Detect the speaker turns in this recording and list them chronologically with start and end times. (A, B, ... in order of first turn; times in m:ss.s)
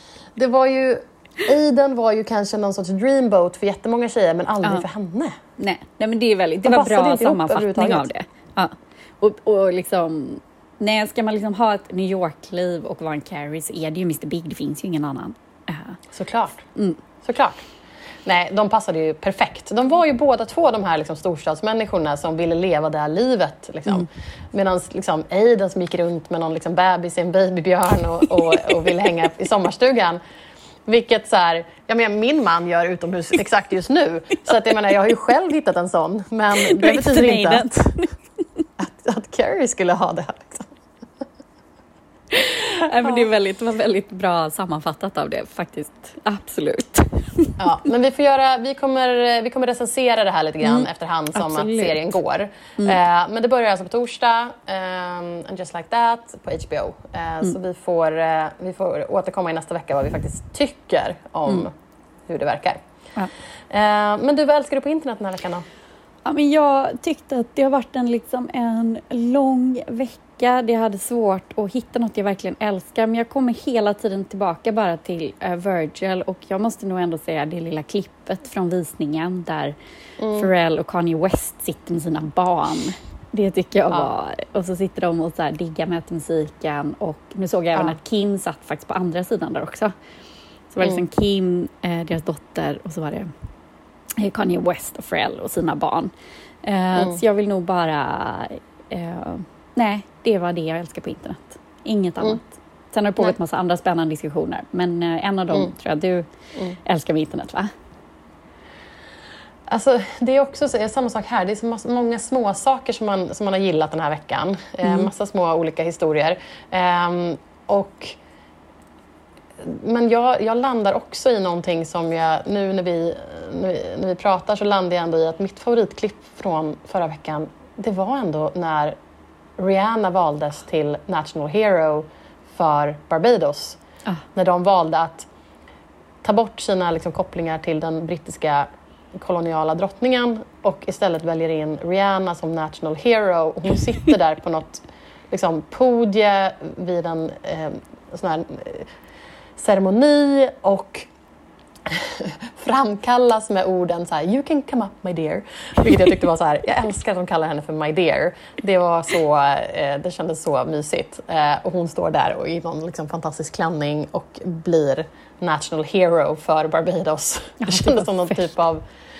0:00.4-0:05.4 A
0:05.6-0:16.0 B
0:06.6-0:08.1 A
0:16.1-0:16.6 A
0:17.2-0:17.6 A
0:18.2-0:30.2 A
0:30.8-0:37.9 A
0:36.6-0:38.6 B
0:38.8-0:40.7 A
0:42.3-0:47.7 B
0:47.6-1:01.7 A
0:50.6-0:52.1 B
1:02.3-1:02.8 A
1:03.7-1:05.6 A
1:06.2-1:19.7 B
1:20.2-1:20.5 A
1:20.3-1:29.9 B
1:30.7-1:33.3 B
1:34.2-1:36.1 B
1:36.6-1:46.2 B
1:37.0-1:37.2 A
1:46.8-1:47.7 B
1:49.7-1:58.2 A
1:54.8-1:55.1 B
1:59.6-2:09.0 A
2:09.6-2:13.8 A
2:14.3-2:15.3 A
2:16.2-2:28.9 A
2:29.6-2:31.1 A
2:31.9-2:48.8 A
2:47.6-2:48.4 B